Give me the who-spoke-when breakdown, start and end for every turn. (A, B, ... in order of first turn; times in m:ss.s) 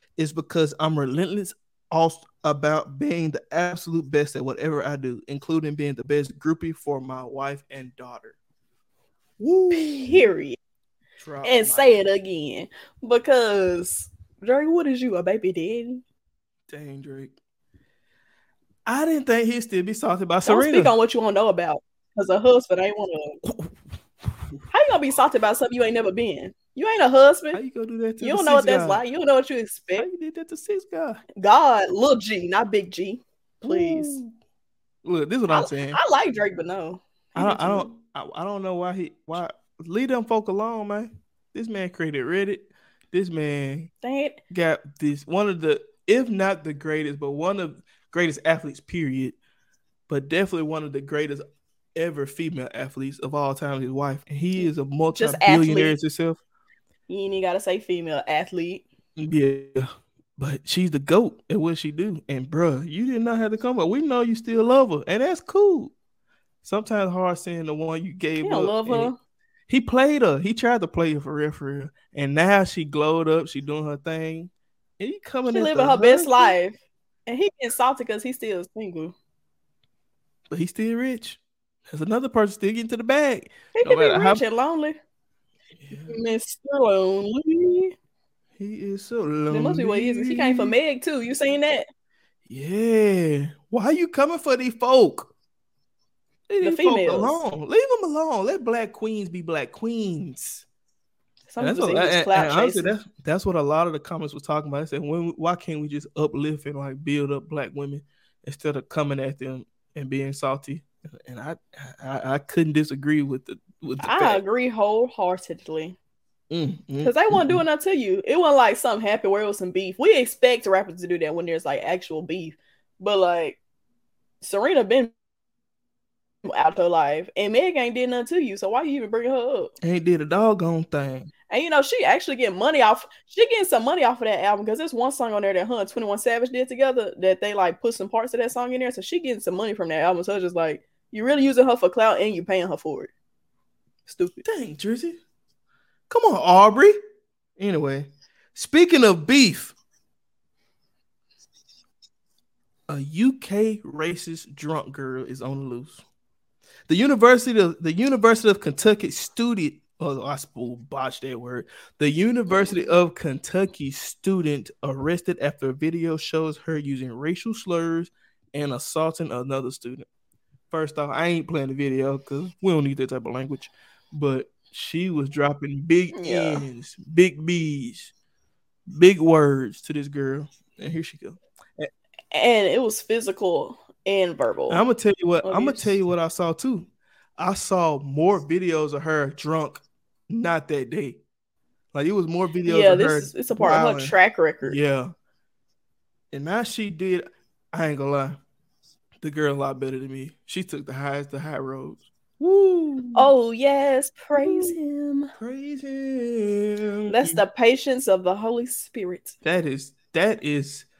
0:00.2-0:08.4 A
0:09.4-0:10.3 A
0:09.7-0:10.6 B
0:11.2-0:11.9 A
0:11.4-0:16.0 B
0:16.7-0:17.3 A
0:18.8-0:20.9 A
0:20.4-0:23.4 B
0:23.4-0:23.7 A
0:24.7-0:27.6 B
0:27.5-0:29.0 A
0:28.2-0:30.1 B
0:30.0-0:31.2 A
0:31.4-0:34.2 B
0:33.6-0:34.2 A
0:35.0-0:36.0 A
0:35.5-0:37.9 B
0:37.4-0:43.9 A
0:44.0-0:44.4 B
0:44.5-0:49.4 A
0:50.1-0:51.4 A
0:51.9-0:56.4 A
0:54.6-0:56.0 B
0:57.1-0:58.8 B
0:59.2-1:05.9 A
1:06.6-1:09.1 A
1:08.4-1:09.2 B
1:09.7-1:16.5 A
1:15.5-1:19.1 B
1:20.5-1:24.4 A
1:23.8-1:25.0 B
1:25.8-1:26.2 A
1:26.1-1:27.9 B
1:28.6-1:30.7 A
1:29.5-1:31.9 B
1:32.5-1:35.3 A
1:36.5-1:40.6 A
1:36.6-1:37.3 B
1:41.5-1:43.0 B
1:41.6-1:54.4 A
1:54.0-1:56.0 B
1:56.5-1:57.6 A
1:57.0-2:03.6 B
2:04.4-2:05.1 B
2:06.4-2:09.7 B
2:09.8-2:11.3 A
2:11.5-2:23.1 B
2:24.0-2:24.4 B
2:24.4-2:25.2 A
2:26.1-2:26.9 A
2:27.6-2:29.8 A
2:32.9-2:36.0 A
2:36.9-2:50.1 A
2:42.5-2:42.8 B
2:50.7-2:58.1 A
2:56.1-2:56.6 B
2:58.9-3:01.9 A
3:02.3-3:04.8 B
3:04.7-3:11.2 A
3:05.4-3:05.9 B
3:11.9-3:15.1 A
3:12.6-3:14.8 B
3:16.3-3:18.4 A
3:19.2-3:23.3 A
3:23.1-3:25.3 B
3:24.4-3:24.8 A
3:25.4-3:27.4 A
3:27.1-3:29.4 B
3:29.4-3:30.8 A